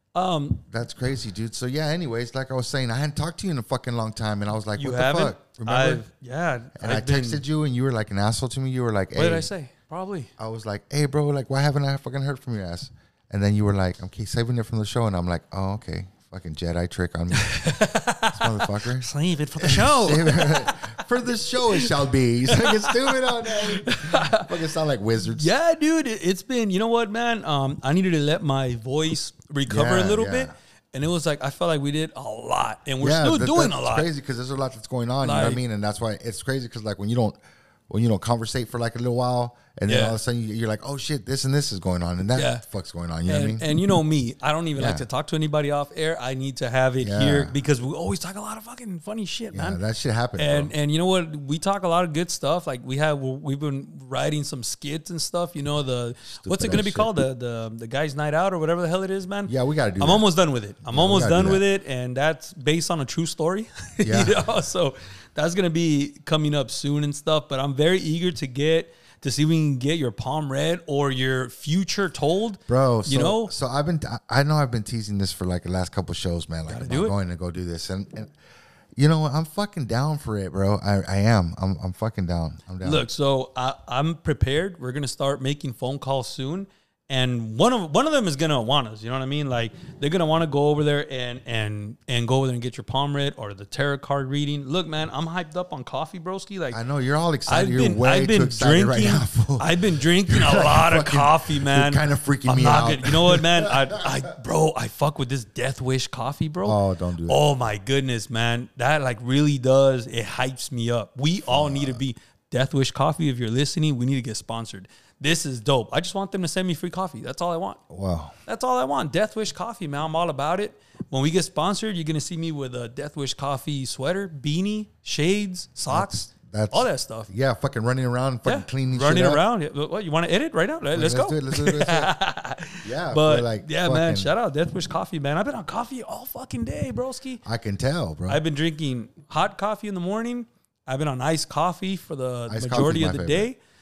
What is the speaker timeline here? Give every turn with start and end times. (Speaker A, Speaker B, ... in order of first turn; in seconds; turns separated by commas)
Speaker A: 0.1-0.6, Speaker B: 0.7-6.0, Speaker A: 4.8-7.4, Speaker B: 6.8-9.5, Speaker A: 9.2-10.3, Speaker B: 10.4-17.7, Speaker A: 17.4-21.1, Speaker B: 18.3-25.5, Speaker A: 22.5-24.5, Speaker A: 25.2-34.1, Speaker B: 29.7-30.5, Speaker B: 33.0-43.7, Speaker A: 35.2-35.6, Speaker A: 39.9-40.2, Speaker A: 42.4-42.6, Speaker A: 43.3-49.8, Speaker B: 44.8-45.1, Speaker B: 47.0-47.5, Speaker B: 49.5-50.7, Speaker A: 50.4-73.5, Speaker B: 56.3-57.2, Speaker B: 59.5-60.3, Speaker B: 60.8-61.6, Speaker B: 64.0-64.4, Speaker B: 72.7-78.3, Speaker A: 76.7-77.1, Speaker B: 79.0-83.0, Speaker A: 82.8-96.8, Speaker B: 96.7-104.1, Speaker A: 97.5-117.8, Speaker B: 106.6-107.4, Speaker B: 111.5-112.0, Speaker B: 117.9-118.4, Speaker A: 118.5-127.3, Speaker B: 125.9-129.4, Speaker A: 128.4-137.4, Speaker B: 130.9-132.1, Speaker B: 132.8-134.3, Speaker B: 137.4-138.4, Speaker A: 138.3-143.6, Speaker B: 142.5-143.5